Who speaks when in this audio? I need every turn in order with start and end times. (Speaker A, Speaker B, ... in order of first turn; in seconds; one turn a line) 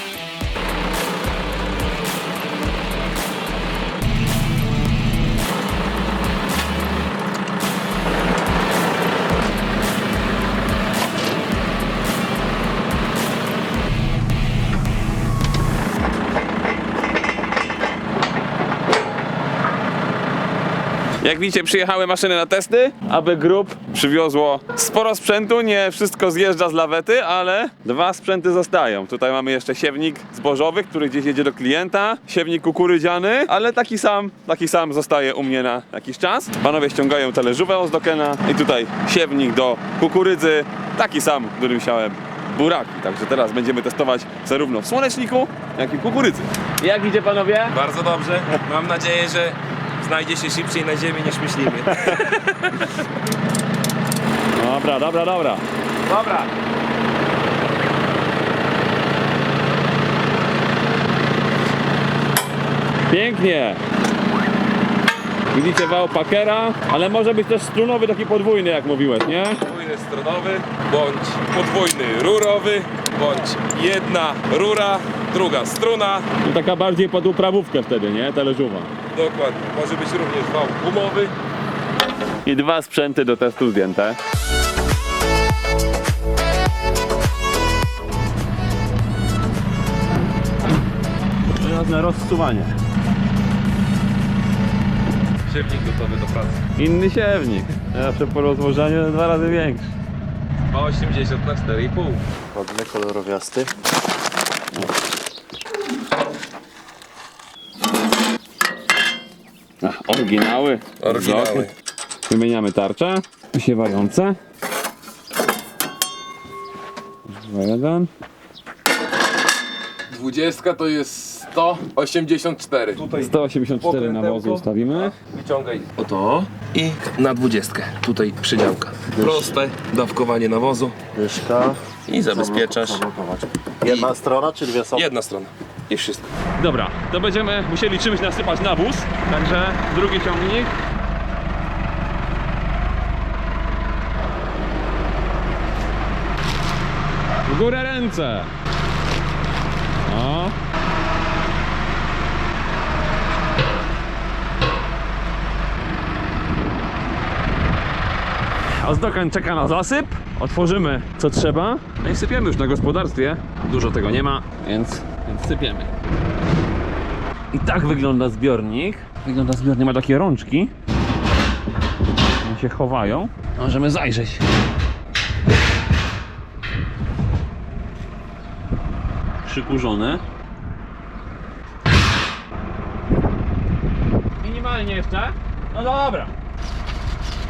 Speaker A: 21.2-47.8
Speaker B: 47.7-52.4
Speaker A: 52.0-52.3
Speaker A: 54.5-56.5
Speaker A: 63.1-63.8
Speaker A: 65.5-69.6
Speaker B: 69.6-76.3
Speaker A: 76.4-78.9
Speaker B: 79.1-81.3
Speaker A: 82.4-84.2
Speaker A: 91.5-92.8
Speaker B: 95.5-96.6
Speaker A: 96.8-99.9
Speaker B: 100.7-102.2
Speaker C: 102.5-103.7
Speaker A: 109.8-111.7
Speaker B: 111.0-111.7
Speaker A: 112.3-114.4
Speaker A: 117.3-118.1
Speaker B: 120.1-130.9
Speaker A: 123.1-125.1
Speaker C: 129.2-129.4
Speaker C: 131.1-135.1
Speaker B: 132.1-133.0
Speaker B: 134.9-136.2
Speaker A: 136.6-140.7
Speaker A: 147.5-148.5
Speaker A: 150.1-150.5
Speaker A: 158.8-165.9
Speaker A: 167.5-170.7
Speaker A: 172.4-174.4
Speaker A: 179.4-180.2
Speaker A: 184.4-186.3